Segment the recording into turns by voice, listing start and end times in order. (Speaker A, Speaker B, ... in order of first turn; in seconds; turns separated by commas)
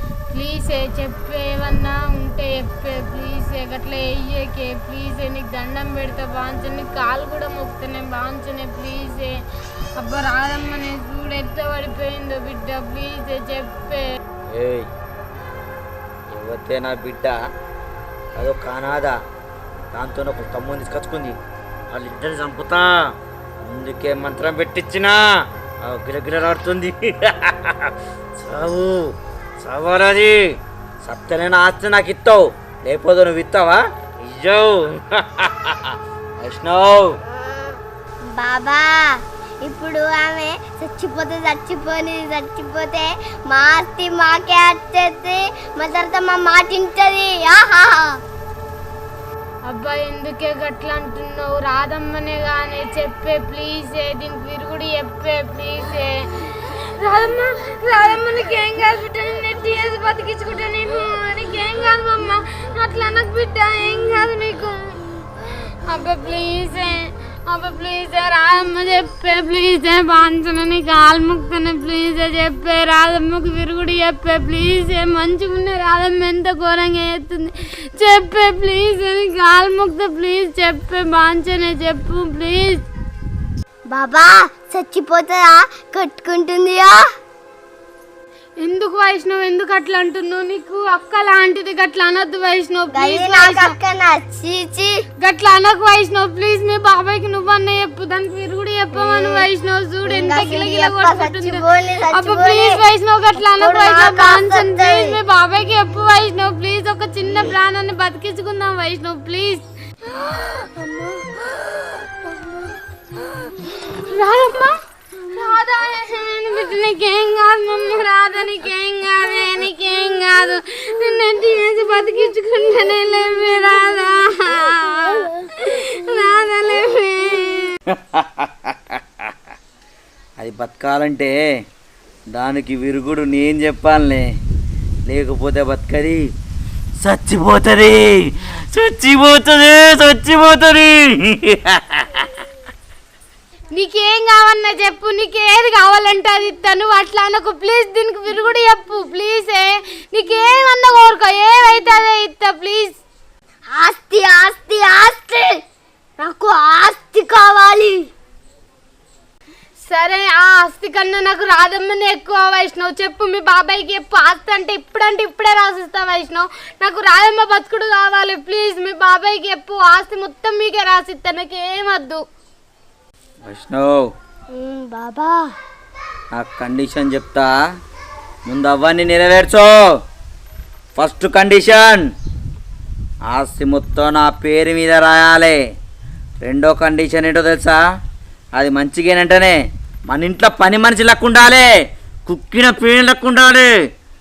Speaker A: 0.3-9.4, Speaker A: 9.9-14.0, Speaker B: 14.5-14.9, Speaker B: 16.3-17.4, Speaker B: 18.4-19.1, Speaker B: 19.9-21.4, Speaker B: 21.9-23.1, Speaker B: 23.6-25.2, Speaker B: 25.8-30.5, Speaker B: 31.0-37.1, Speaker C: 38.3-48.2, Speaker A: 49.6-65.0, Speaker A: 65.8-82.8, Speaker C: 83.9-87.0, Speaker A: 88.6-93.7, Speaker C: 92.9-95.0, Speaker A: 95.2-109.6, Speaker C: 98.9-99.5, Speaker C: 100.0-102.8, Speaker C: 103.4-105.2, Speaker C: 110.1-111.5, Speaker C: 112.2-112.7, Speaker A: 113.8-114.8, Speaker A: 115.3-127.7, Speaker B: 127.9-129.0, Speaker B: 130.4-131.3, Speaker B: 132.3-134.2, Speaker B: 135.1-136.2, Speaker B: 137.0-142.3, Speaker A: 143.7-153.0, Speaker C: 153.7-155.6, Speaker C: 156.2-158.1, Speaker A: 159.8-172.2, Speaker B: 173.4-174.1, Speaker C: 174.5-175.6, Speaker B: 176.3-177.5, Speaker B: 178.4-179.7, Speaker B: 180.9-182.1, Speaker B: 183.3-185.6, Speaker B: 186.4-187.8, Speaker B: 188.6-189.6, Speaker B: 190.1-191.7, Speaker B: 192.2-193.7